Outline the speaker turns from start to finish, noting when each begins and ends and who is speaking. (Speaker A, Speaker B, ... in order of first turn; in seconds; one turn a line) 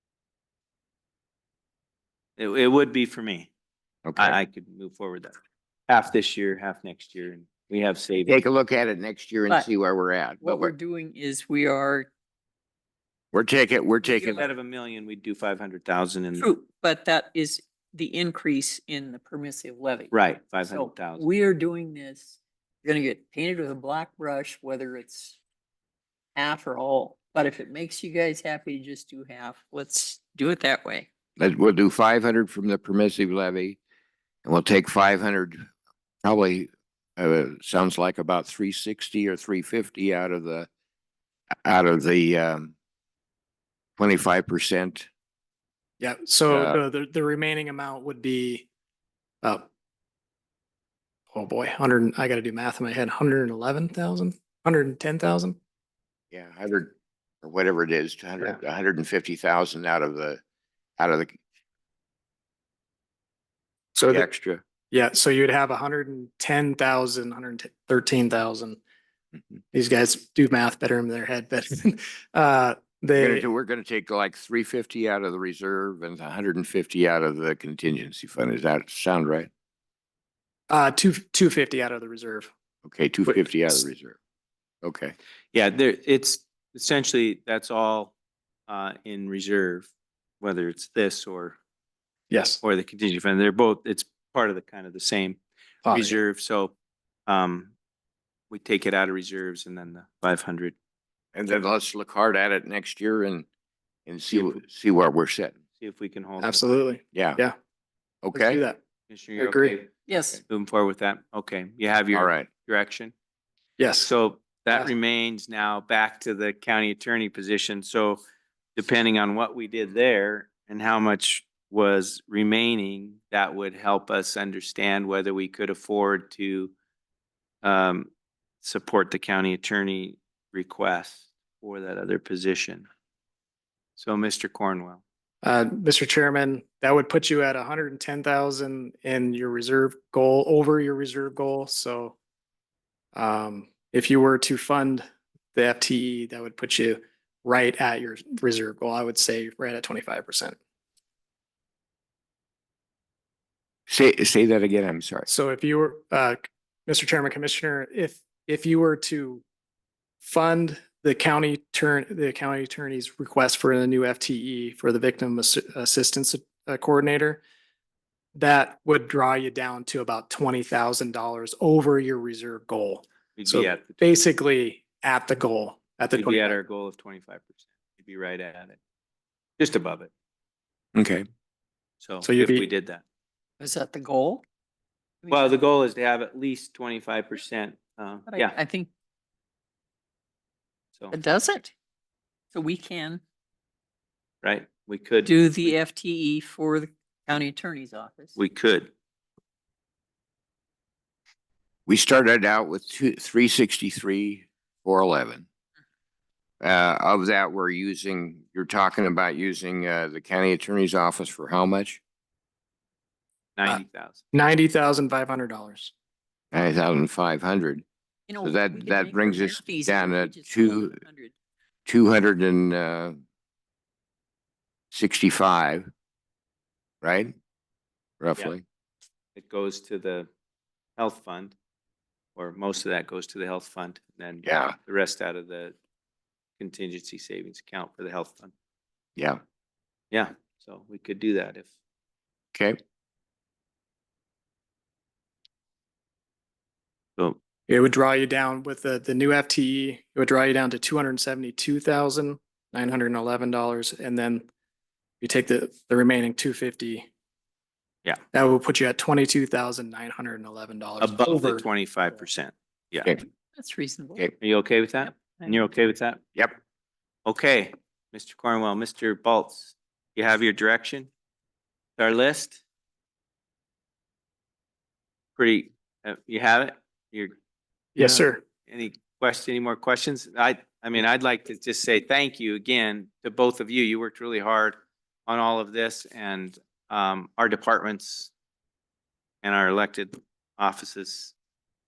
Speaker A: 2.4-3.5
Speaker B: 4.0-4.4
Speaker A: 4.2-5.3
Speaker A: 5.9-8.4
Speaker B: 8.2-10.7
Speaker C: 10.4-12.1
Speaker B: 13.3-14.4
Speaker A: 14.1-16.5
Speaker C: 16.4-20.1
Speaker A: 20.1-21.2
Speaker C: 20.6-25.4
Speaker C: 26.4-31.1
Speaker B: 31.4-33.8
Speaker B: 34.4-35.7
Speaker B: 36.2-40.7
Speaker B: 41.6-42.7
Speaker B: 44.0-45.1
Speaker D: 46.0-48.7
Speaker B: 46.5-46.8
Speaker D: 51.3-55.6
Speaker B: 56.3-60.4
Speaker B: 61.0-61.4
Speaker D: 64.0-64.3
Speaker B: 64.1-64.6
Speaker D: 64.9-68.8
Speaker D: 69.7-73.5
Speaker B: 73.2-79.5
Speaker D: 80.7-82.5
Speaker B: 82.8-84.2
Speaker D: 83.3-83.8
Speaker B: 84.8-85.1
Speaker A: 85.5-88.1
Speaker A: 88.7-89.9
Speaker A: 90.4-91.6
Speaker D: 92.3-92.6
Speaker A: 92.6-96.7
Speaker D: 95.8-96.2
Speaker A: 97.3-97.7
Speaker A: 98.5-100.7
Speaker B: 101.3-103.5
Speaker B: 104.1-105.5
Speaker A: 104.3-104.6
Speaker A: 105.8-106.7
Speaker D: 106.4-107.5
Speaker B: 107.1-107.4
Speaker B: 108.2-108.6
Speaker D: 108.3-108.8
Speaker A: 109.1-109.9
Speaker D: 109.4-109.8
Speaker C: 110.1-110.4
Speaker A: 110.4-113.1
Speaker B: 112.1-112.5
Speaker D: 113.8-114.1
Speaker A: 114.0-118.2
Speaker A: 118.8-126.7
Speaker A: 127.6-128.1
Speaker A: 128.6-132.9
Speaker A: 134.0-135.0
Speaker D: 135.4-142.2
Speaker D: 143.2-145.0
Speaker D: 145.6-150.6
Speaker B: 153.9-155.3
Speaker D: 155.3-159.4
Speaker D: 160.2-167.4
Speaker D: 168.3-176.6
Speaker A: 173.4-174.0
Speaker A: 176.2-178.8
Speaker A: 179.6-180.1
Speaker B: 180.9-181.2
Speaker A: 182.0-183.0
Speaker D: 182.2-182.7
Speaker C: 183.6-184.4
Speaker C: 185.2-185.6
Speaker A: 185.3-188.6
Speaker C: 188.3-188.9
Speaker C: 191.1-191.7
Speaker C: 192.5-193.2
Speaker A: 194.4-195.8
Speaker C: 195.2-198.4
Speaker A: 198.4-198.9
Speaker B: 201.9-205.5
Speaker B: 206.6-212.0
Speaker A: 213.6-214.2
Speaker D: 214.3-215.9
Speaker B: 216.5-217.8
Speaker C: 218.3-221.3
Speaker B: 218.4-221.0
Speaker B: 221.9-223.2
Speaker B: 224.9-225.9
Speaker B: 227.0-227.3
Speaker B: 228.2-228.6
Speaker A: 229.4-230.3
Speaker A: 231.0-231.5
Speaker A: 232.4-235.8
Speaker B: 234.4-234.8
Speaker A: 236.6-238.5
Speaker A: 240.1-241.7
Speaker D: 247.7-254.4
Speaker D: 255.2-257.1
Speaker D: 258.3-261.6
Speaker A: 261.0-263.2
Speaker C: 263.5-264.2
Speaker A: 264.4-266.2
Speaker C: 265.1-265.5
Speaker A: 267.3-271.1
Speaker A: 272.0-272.6
Speaker A: 275.4-277.3
Speaker D: 278.0-278.4
Speaker A: 278.0-288.3
Speaker A: 289.4-291.3